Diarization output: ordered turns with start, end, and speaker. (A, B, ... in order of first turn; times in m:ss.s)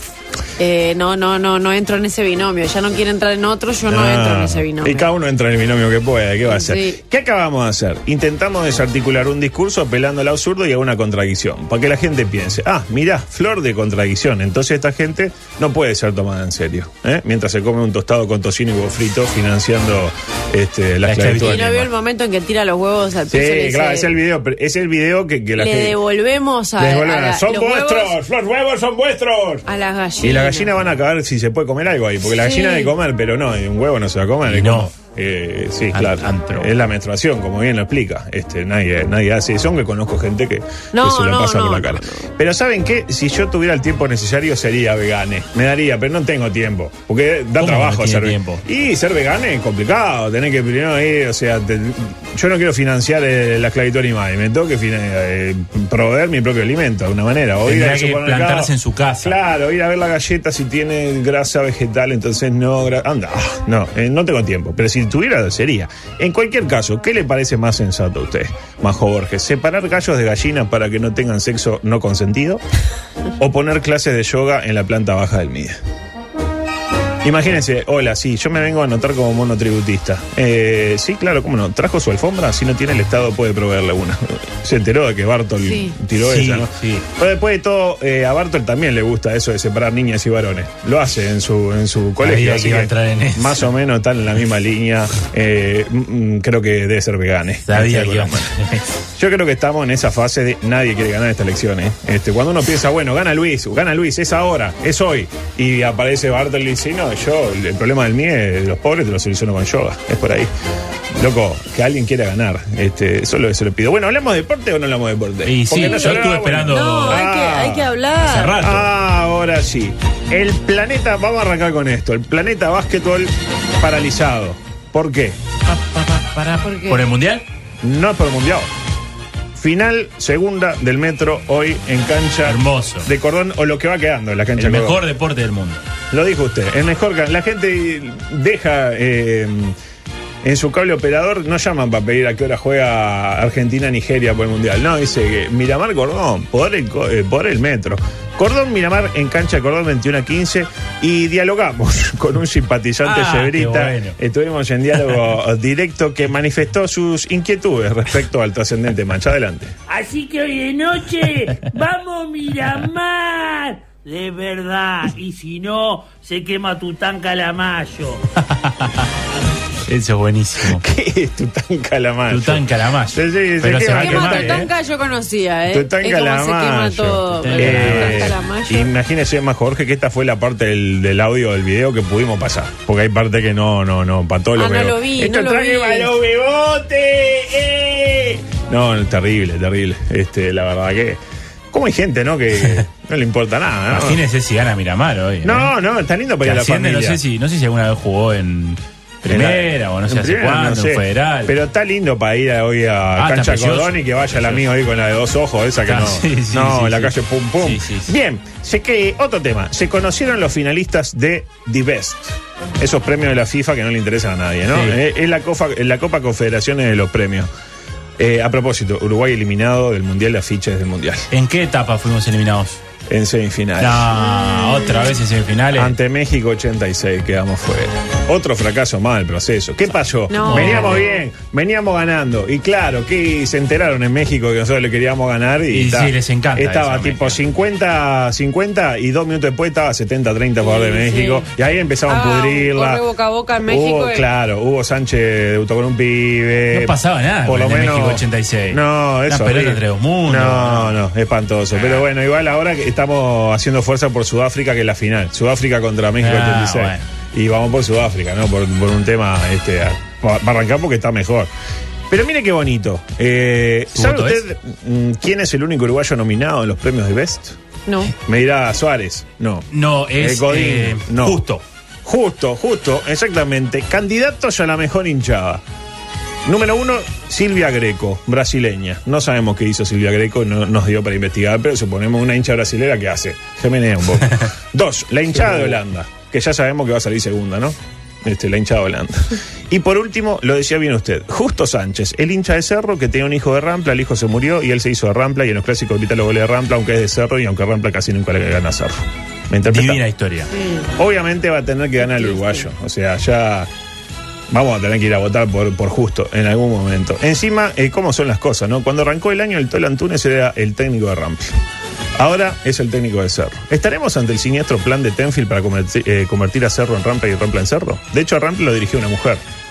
0:00.6-0:05.1 A
0:03.9-0:21.7 B
0:06.4-0:07.0 A
0:21.0-0:21.9 C
0:21.4-0:24.1 A
0:23.3-0:26.0 B
0:25.6-0:28.2 A
0:26.8-0:29.6 B
0:29.7-0:30.8 A
0:30.2-1:12.6 B
0:32.2-0:32.9 A
0:34.4-0:34.9 C
0:35.9-0:36.7 C
0:40.9-0:42.2 A
0:47.6-0:48.6 C
0:57.6-0:59.4 C
1:13.4-1:15.8 B
1:17.2-1:38.5 B
1:25.6-1:25.9 A
1:26.2-1:27.0 C
1:32.2-1:33.7 C
1:37.6-1:38.9 C
1:39.2-1:50.5 B
1:51.1-1:57.9 B
1:55.4-1:57.2 C
1:55.8-1:58.6 A
1:58.2-1:58.9 C
1:58.6-2:05.4 B
2:05.7-2:07.4 C
2:06.6-2:07.0 A
2:07.8-2:08.7 B
2:09.5-2:15.0 B
2:12.4-2:13.1 C
2:14.6-2:15.8 C
2:16.1-2:19.8 B
2:20.4-2:39.7 B
2:33.0-2:34.1 C
2:39.9-2:48.1 D
2:48.4-2:49.0 C
2:49.9-2:50.8 C
2:50.7-2:54.7 B
2:52.3-2:54.7 C
2:53.9-2:58.9 A
2:55.7-3:11.2 B
2:57.3-2:58.3 C
3:04.5-3:06.1 A
3:11.7-3:14.2 B
3:12.5-3:12.8 C
3:13.9-3:15.7 C
3:15.4-3:17.2 B
3:16.4-3:21.5 C
3:19.3-3:37.5 B
3:23.2-3:24.6 C
3:25.8-3:28.2 C
3:34.7-3:35.0 C
3:38.2-3:41.3 B
3:41.3-3:42.8 C
3:43.1-3:44.1 B
3:43.8-3:46.0 C
3:45.7-4:03.0 B
3:50.3-3:51.2 A
3:50.4-3:51.0 C
3:55.7-3:57.4 C
4:00.6-4:01.4 A
4:02.0-4:04.2 A
4:03.6-4:21.5 B
4:06.7-4:11.0 C
4:11.7-4:12.1 C
4:16.2-4:17.0 C
4:22.1-4:29.7 B
4:23.9-4:24.4 C
4:27.9-4:28.1 A
4:29.7-4:31.6 C
4:30.2-4:31.4 B
4:32.0-4:35.6 B
4:36.4-5:00.0 B
4:59.6-5:00.5 C
5:00.6-5:00.9 A
5:01.0-5:03.7 B
5:02.0-5:02.7 A
5:04.5-5:11.5 B
5:12.2-5:19.4 B